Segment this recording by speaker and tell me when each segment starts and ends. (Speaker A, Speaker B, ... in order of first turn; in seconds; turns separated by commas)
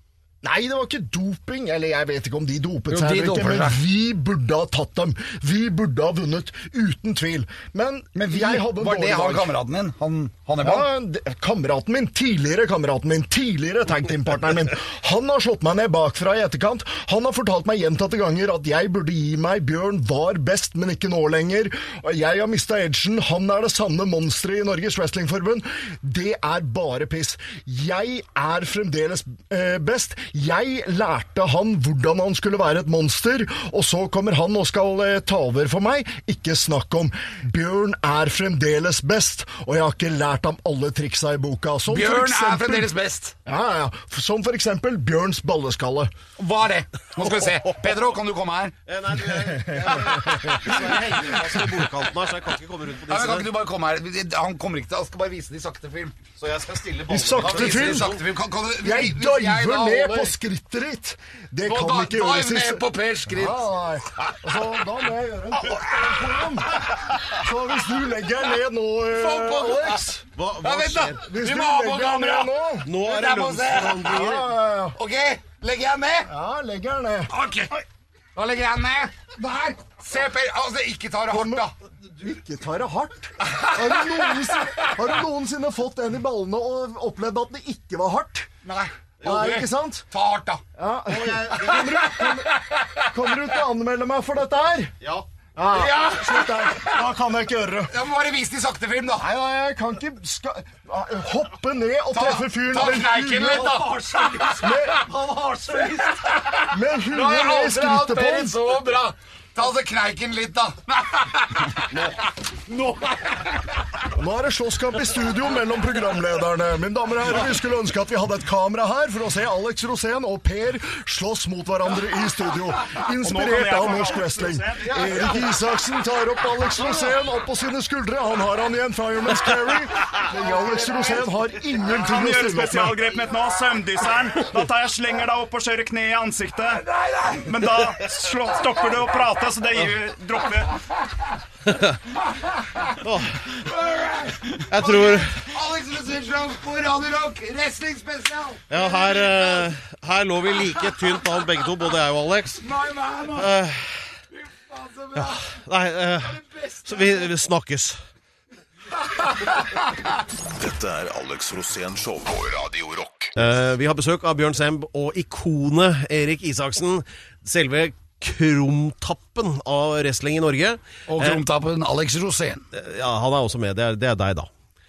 Speaker A: 0.4-9.5, Speaker B: 2.9-3.8, Speaker B: 8.2-10.9, Speaker A: 10.6-42.9, Speaker B: 41.9-43.3, Speaker A: 43.5-46.1, Speaker B: 46.4-48.8, Speaker C: 48.9-53.5, Speaker A: 49.4-50.3, Speaker B: 50.1-51.7, Speaker B: 53.1-56.2, Speaker C: 56.4-58.2, Speaker A: 57.1-58.1, Speaker B: 57.4-60.3, Speaker A: 58.8-70.2, Speaker B: 61.6-63.6, Speaker B: 65.6-67.2, Speaker B: 69.1-70.1, Speaker C: 70.4-71.2, Speaker B: 70.6-74.4, Speaker A: 71.2-72.9, Speaker C: 72.8-74.5, Speaker A: 74.0-75.0, Speaker B: 74.9-76.3, Speaker A: 76.3-77.3, Speaker B: 77.3-77.8, Speaker B: 78.3-81.7, Speaker A: 81.3-88.5, Speaker B: 83.4-85.1, Speaker B: 88.6-90.6, Speaker A: 89.2-90.1, Speaker A: 90.8-94.9, Speaker C: 91.1-92.0, Speaker B: 91.5-93.3, Speaker A: 95.6-97.9, Speaker B: 95.7-97.1, Speaker B: 97.9-99.3, Speaker A: 99.2-103.9, Speaker B: 102.1-114.0, Speaker A: 104.5-105.0, Speaker A: 106.7-108.5, Speaker A: 114.1-133.0, Speaker D: 123.2-125.5, Speaker C: 124.9-125.3, Speaker D: 131.9-136.8, Speaker B: 136.7-137.7, Speaker D: 137.4-140.8, Speaker C: 141.7-141.9, Speaker B: 142.3-143.0, Speaker C: 143.0-143.4, Speaker B: 143.5-149.7, Speaker C: 144.7-145.3, Speaker C: 148.7-152.6, Speaker B: 150.6-151.7, Speaker B: 152.5-153.5, Speaker C: 153.3-154.1, Speaker B: 154.3-155.6, Speaker C: 155.2-158.0, Speaker B: 156.2-157.3, Speaker B: 159.0-159.9, Speaker E: 160.6-163.3, Speaker C: 163.4-171.4, Speaker B: 171.1-172.6, Speaker C: 172.7-174.5